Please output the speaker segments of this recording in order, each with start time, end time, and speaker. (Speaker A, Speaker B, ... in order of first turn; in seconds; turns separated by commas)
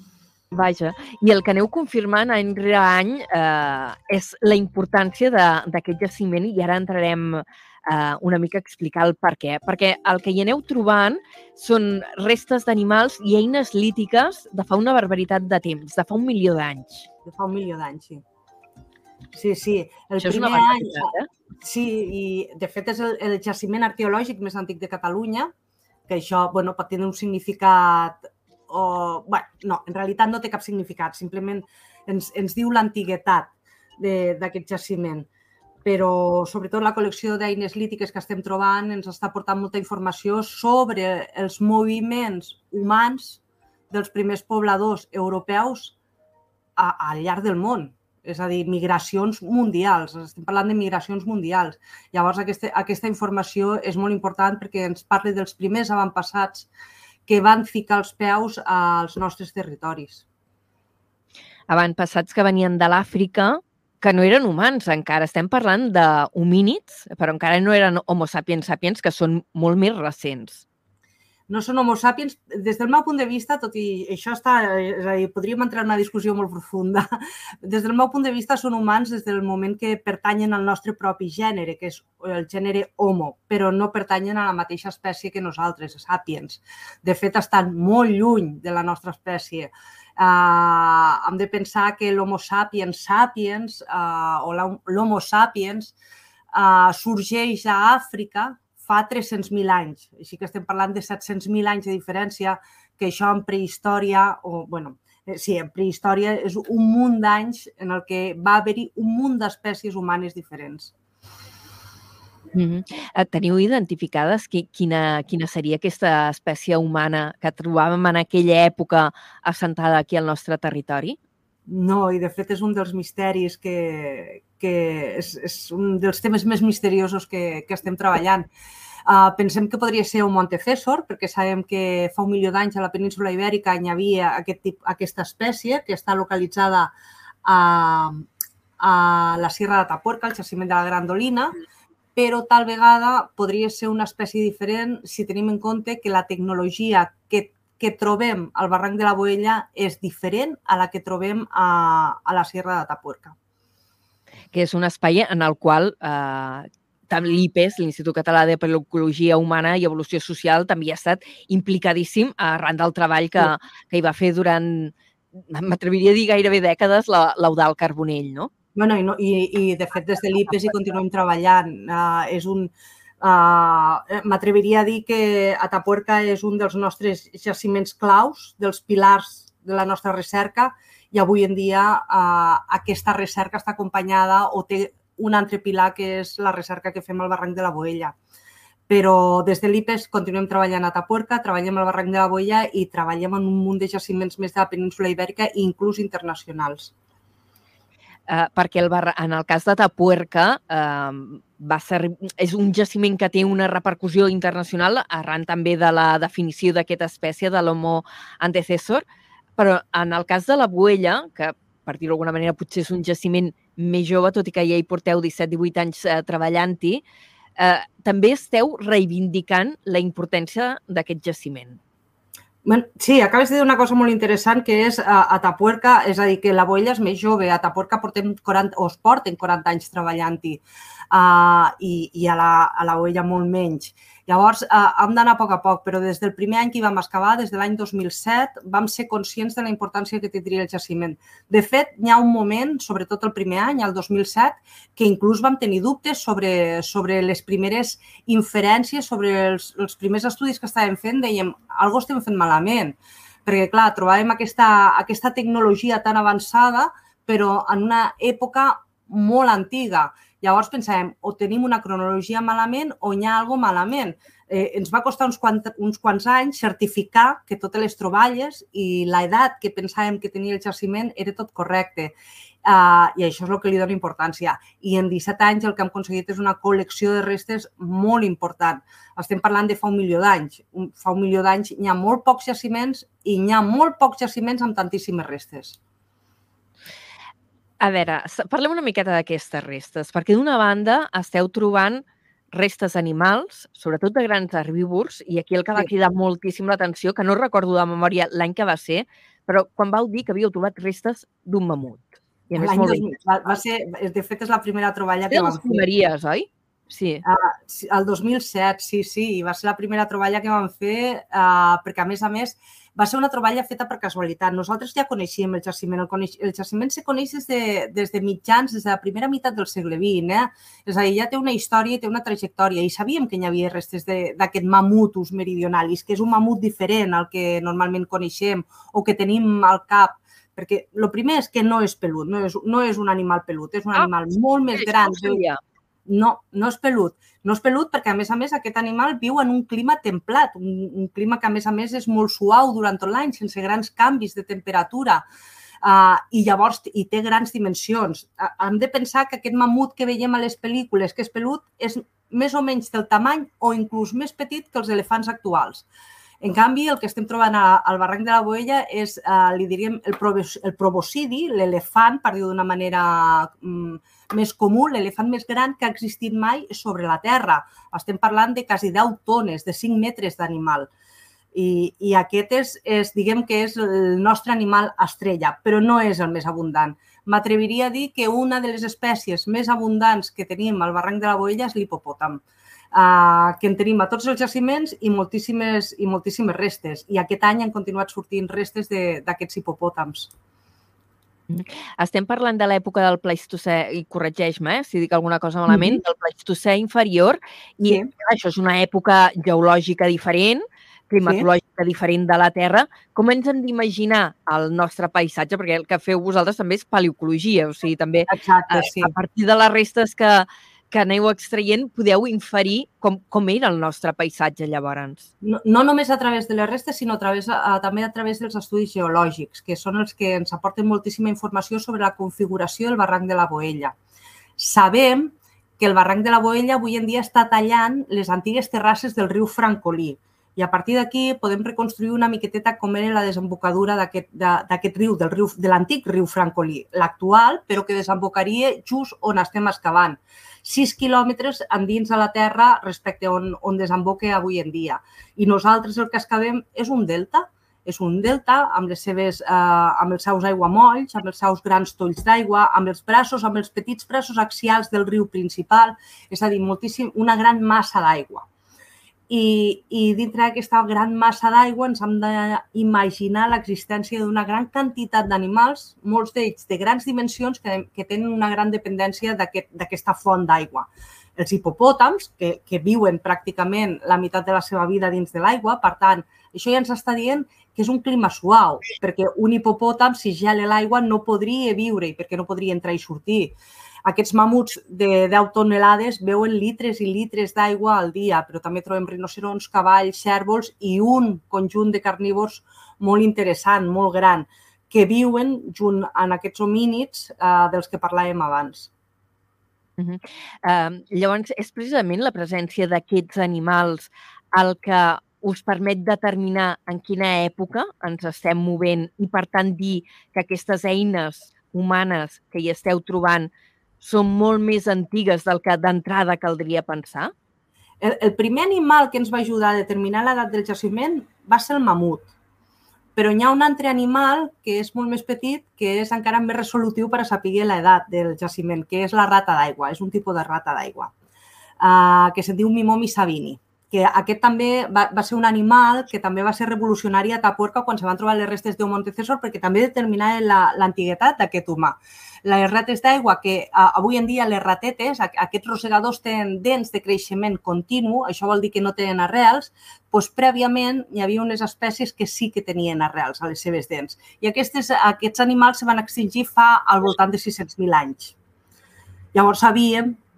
Speaker A: 0.5-17.1, Speaker B: 17.2-18.2, Speaker B: 19.3-25.5, Speaker A: 20.2-21.3, Speaker B: 26.1-35.3, Speaker B: 35.9-46.0, Speaker B: 46.8-56.7, Speaker B: 57.3-60.2, Speaker A: 61.7-70.7, Speaker B: 71.5-96.0, Speaker B: 96.5-110.9, Speaker A: 112.5-121.2, Speaker B: 121.7-128.5, Speaker B: 129.1-136.9, Speaker B: 137.4-138.3, Speaker B: 138.8-141.6, Speaker B: 142.2-153.3, Speaker A: 154.5-164.9, Speaker A: 165.5-168.5, Speaker B: 168.8-188.2, Speaker B: 188.9-196.9, Speaker A: 198.3-209.0, Speaker A: 209.6-217.0, Speaker A: 217.6-221.8, Speaker B: 222.7-285.8, Speaker A: 287.8-303.1, Speaker B: 302.6-305.9, Speaker A: 305.3-307.2, Speaker B: 307.2-335.4, Speaker A: 334.8-335.6, Speaker B: 336.1-345.2, Speaker B: 345.8-355.9, Speaker B: 356.4-370.9, Speaker B: 371.5-382.4, Speaker B: 382.9-390.3, Speaker A: 391.5-415.3, Speaker B: 395.7-396.0, Speaker B: 408.3-409.1, Speaker B: 415.4-423.9, Speaker B: 424.6-458.5, Speaker B: 459.3-498.9, Speaker A: 500.0-517.3, Speaker B: 518.0-522.3, Speaker B: 523.2-531.1, Speaker B: 531.8-558.4, Speaker B: 559.3-560.2